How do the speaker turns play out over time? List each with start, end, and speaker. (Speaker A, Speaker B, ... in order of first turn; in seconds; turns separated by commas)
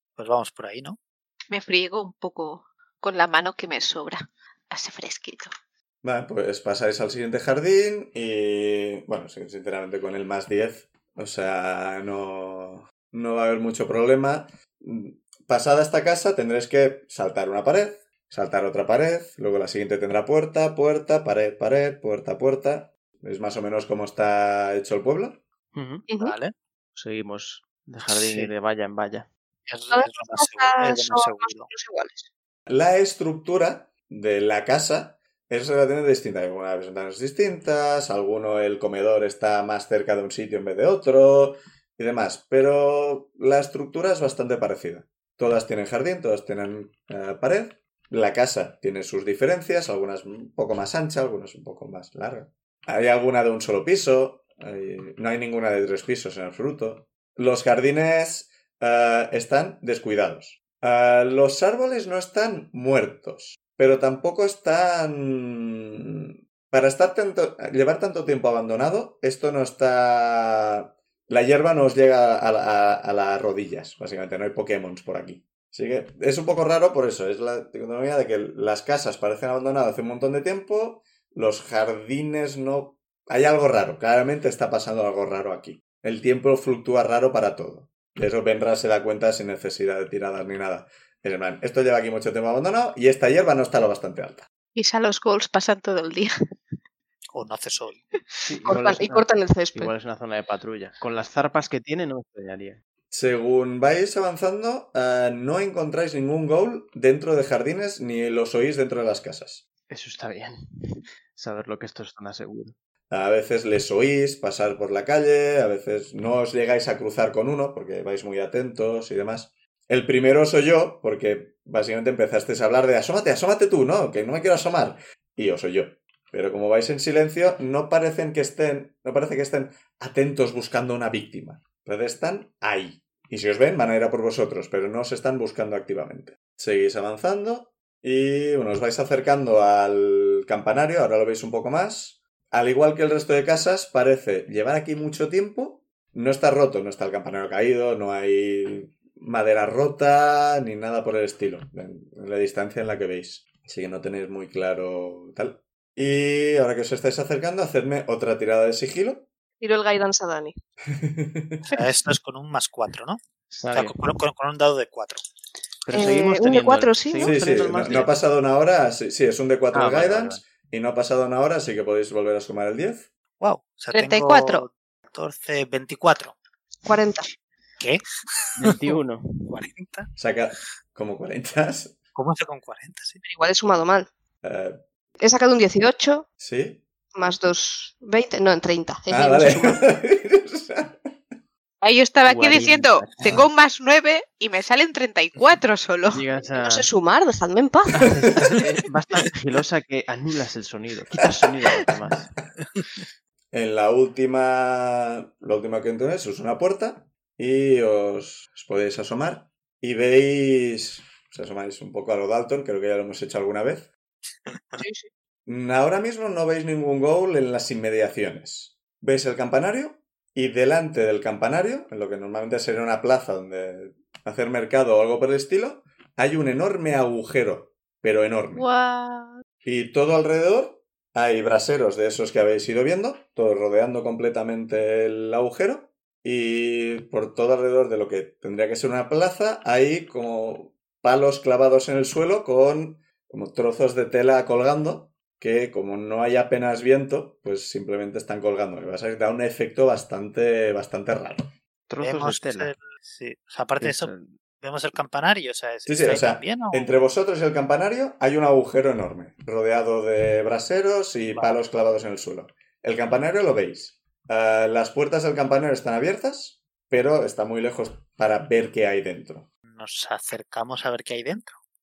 Speaker A: 0.2-1.0, Speaker B: 1.5-5.5, Speaker C: 6.0-25.4, Speaker D: 25.7-26.1, Speaker E: 26.1-26.4, Speaker A: 26.2-26.5, Speaker D: 26.9-29.3, Speaker A: 28.1-28.5, Speaker A: 29.7-31.7, Speaker E: 29.9-32.3, Speaker C: 32.7-94.5, Speaker B: 94.8-96.3, Speaker A: 97.3-98.1, Speaker D: 98.4-102.8, Speaker E: 98.7-99.9, Speaker C: 103.1-109.6, Speaker D: 109.9-112.8, Speaker C: 113.1-159.3, Speaker E: 159.6-160.6, Speaker C: 160.9-161.7, Speaker A: 161.7-165.2, Speaker D: 163.5-164.0, Speaker D: 165.8-168.1, Speaker E: 165.9-167.3, Speaker C: 167.2-173.1, Speaker D: 169.7-170.4, Speaker A: 173.4-176.4, Speaker B: 173.9-174.7, Speaker E: 176.9-177.3, Speaker A: 177.8-178.9, Speaker D: 178.6-179.6, Speaker A: 179.5-180.1, Speaker C: 180.2-182.0, Speaker A: 182.2-183.2, Speaker E: 183.2-184.1, Speaker C: 184.4-184.8, Speaker E: 185.2-186.3, Speaker C: 186.4-186.8, Speaker E: 187.2-189.8, Speaker C: 189.1-191.2, Speaker B: 191.8-196.2, Speaker D: 192.3-193.5, Speaker D: 196.1-196.9, Speaker E: 196.6-198.2, Speaker D: 198.0-202.3, Speaker C: 203.5-213.9, Speaker E: 214.8-215.1, Speaker C: 215.5-228.7, Speaker B: 228.5-229.4, Speaker C: 229.6-251.5, Speaker D: 251.9-252.7, Speaker A: 252.0-256.9, Speaker D: 253.8-254.3, Speaker C: 255.9-269.5, Speaker A: 269.7-271.6